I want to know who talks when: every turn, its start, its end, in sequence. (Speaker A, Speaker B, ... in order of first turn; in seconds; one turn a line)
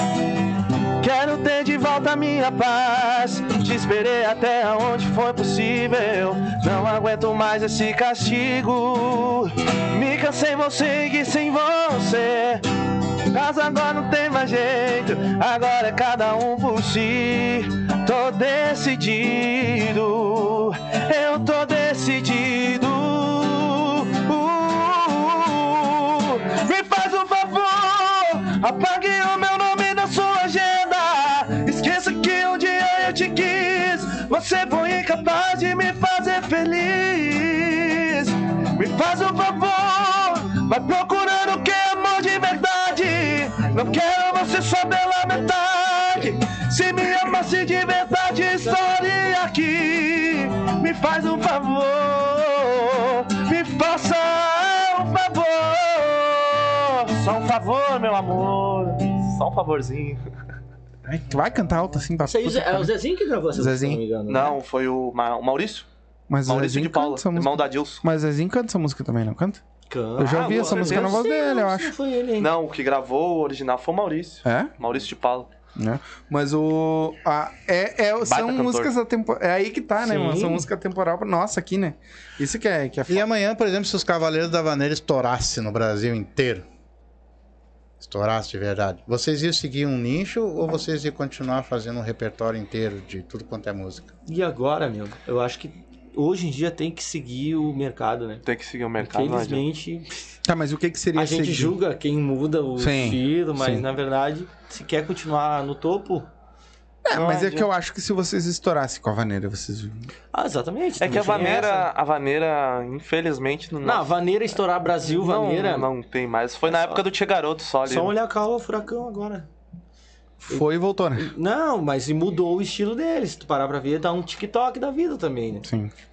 Speaker A: 1.0-12.7
Speaker A: 13.3-60.2
Speaker B: 61.1-62.9
Speaker C: 62.2-64.6
Speaker B: 63.5-64.0
Speaker A: 64.3-65.9
Speaker B: 66.3-69.6
Speaker A: 66.5-68.0
Speaker C: 69.9-72.5
Speaker B: 70.2-71.9
Speaker A: 70.2-71.2
Speaker A: 72.4-75.5
Speaker B: 74.5-74.7
Speaker B: 75.8-83.3
Speaker A: 78.2-78.9
Speaker C: 80.0-80.7
Speaker D: 83.1-86.7
Speaker D: 88.0-94.1
Speaker C: 94.3-98.4
Speaker A: 98.5-99.6
Speaker C: 99.0-100.3
Speaker B: 100.5-101.8
Speaker C: 101.2-106.3
Speaker B: 102.8-103.9
Speaker B: 107.0-110.1
Speaker A: 107.1-107.7
Speaker C: 110.3-111.9
Speaker A: 111.0-114.1
Speaker C: 113.8-115.9
Speaker A: 115.0-118.1
Speaker C: 116.7-117.0
Speaker C: 117.8-119.5
Speaker B: 120.4-121.3
Speaker C: 120.5-125.7
Speaker B: 125.6-125.9